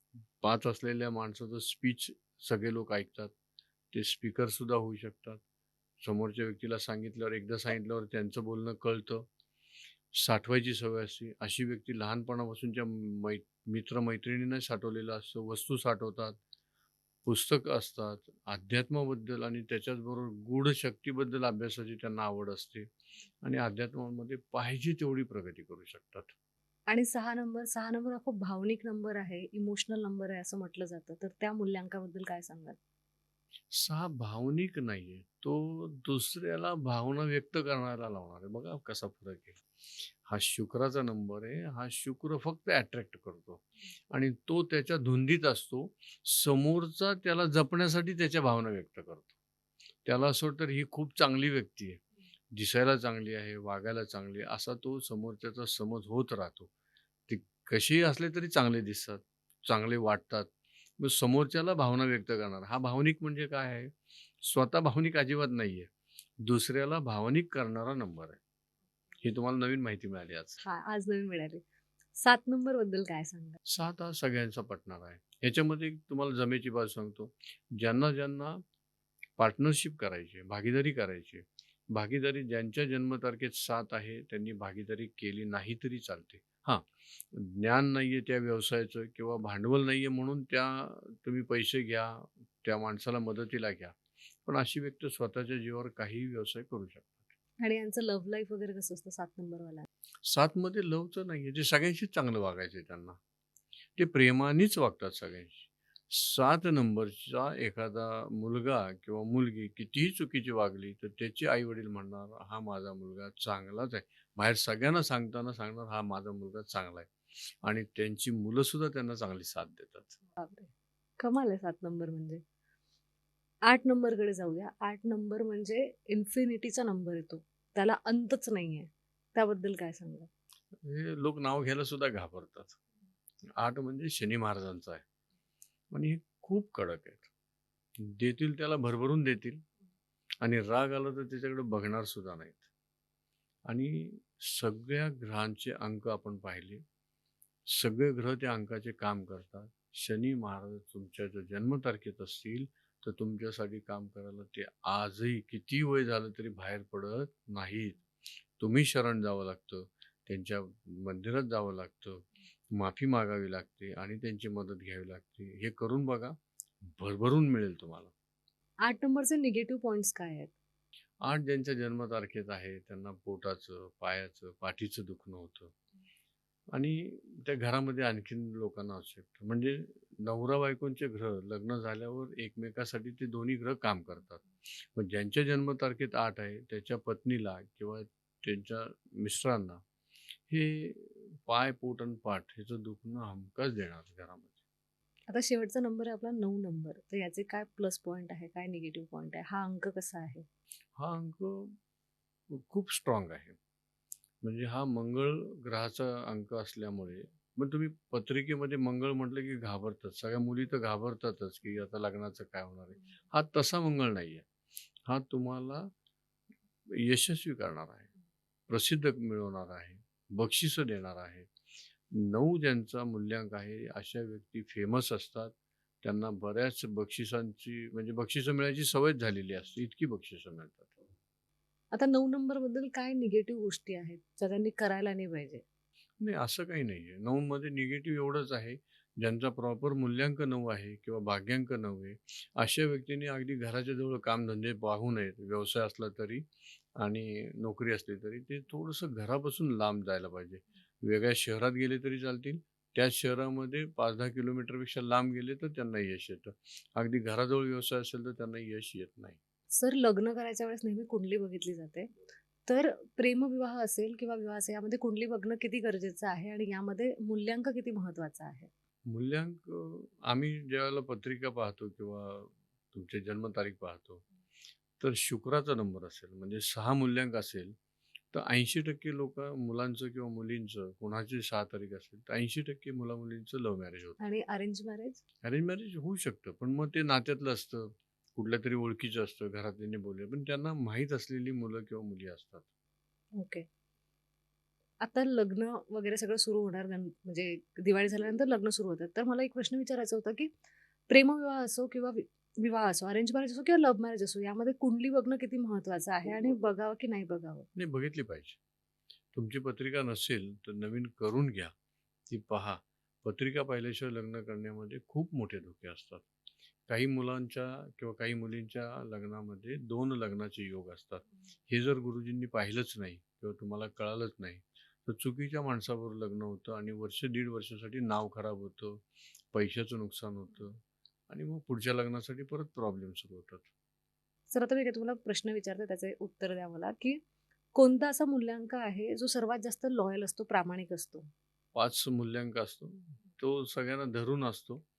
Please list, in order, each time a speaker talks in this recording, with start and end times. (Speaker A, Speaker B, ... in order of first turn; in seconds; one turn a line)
Speaker A: 0.4-3.3
Speaker A: 3.9-5.4
Speaker A: 6.0-9.3
Speaker A: 10.1-16.4
Speaker A: 17.2-22.9
Speaker A: 23.4-26.3
Speaker B: 26.9-32.8
Speaker A: 33.7-49.3
Speaker A: 50.0-52.0
Speaker A: 52.5-56.7
Speaker A: 57.3-68.4
Speaker A: 69.2-70.6
Speaker B: 70.6-71.6
Speaker B: 72.2-73.6
Speaker A: 73.7-78.6
Speaker A: 79.4-97.3
Speaker B: 97.6-99.9
Speaker A: 100.2-103.2
Speaker A: 104.0-120.2
Speaker B: 120.4-122.4
Speaker B: 123.6-130.3
Speaker A: 130.8-132.8
Speaker A: 133.6-135.0
Speaker A: 135.9-137.3
Speaker A: 138.0-139.6
Speaker A: 140.4-142.6
Speaker A: 143.7-146.8
Speaker A: 147.7-158.0
Speaker A: 158.6-168.1
Speaker B: 168.8-170.5
Speaker A: 171.2-175.7
Speaker A: 176.7-189.8
Speaker A: 190.5-194.6
Speaker B: 195.3-200.4
Speaker A: 200.9-201.8
Speaker A: 202.5-203.6
Speaker A: 204.4-214.4
Speaker A: 215.0-215.9
Speaker A: 216.9-218.1
Speaker A: 218.7-221.5
Speaker A: 222.1-231.0
Speaker B: 231.9-235.6
Speaker A: 236.2-259.4
Speaker B: 259.7-262.1
Speaker B: 262.6-268.7
Speaker A: 269.1-274.2
Speaker A: 275.0-277.7
Speaker A: 278.3-284.2
Speaker B: 284.2-285.2
Speaker A: 285.4-292.6
Speaker B: 293.3-293.6
Speaker B: 295.0-300.5
Speaker B: 301.1-307.7
Speaker A: 307.7-308.6
Speaker A: 309.3-311.7
Speaker A: 312.3-316.2
Speaker A: 316.9-333.7
Speaker B: 334.5-337.2
Speaker B: 337.7-341.3
Speaker A: 341.7-344.8